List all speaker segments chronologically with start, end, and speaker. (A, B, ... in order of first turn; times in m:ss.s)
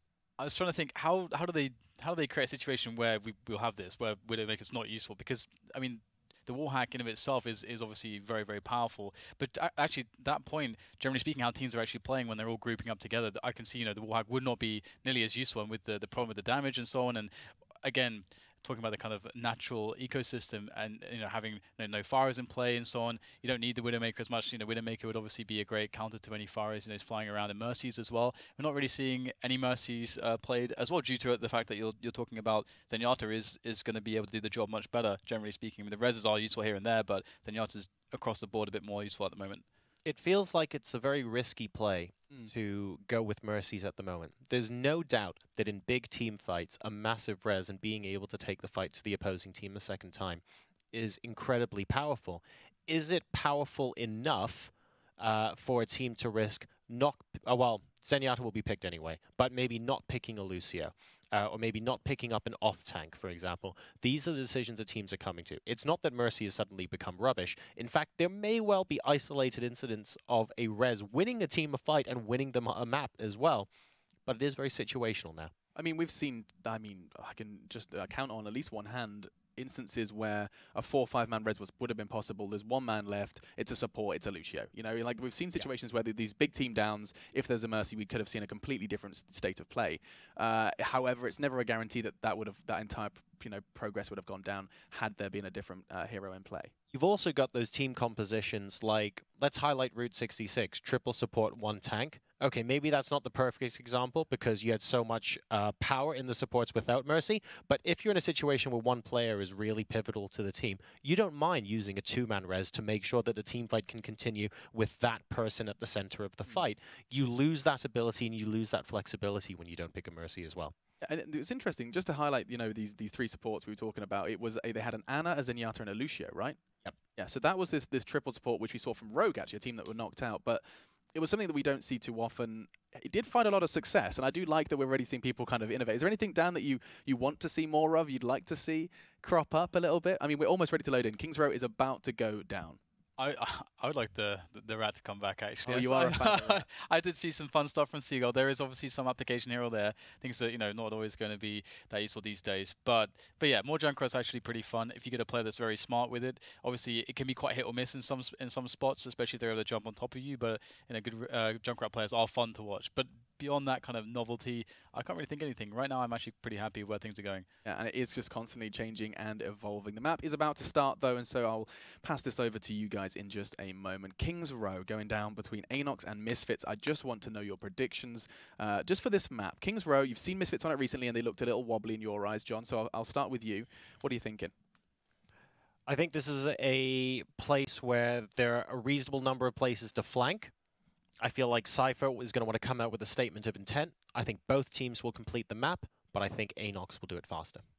0:00.4-0:17.3 A
0:17.8-0:39.6 A
0:40.0-1:13.7 B
1:14.3-1:15.5 B
1:15.8-1:36.7 C
1:36.9-2:00.7 B
2:01.0-2:06.6 C
2:07.2-2:10.6 C
2:11.1-2:22.8 C
2:23.2-2:47.5 A
2:25.7-2:26.7 C
2:47.6-3:04.5 C
3:05.9-3:10.5 B
3:11.2-3:17.6 B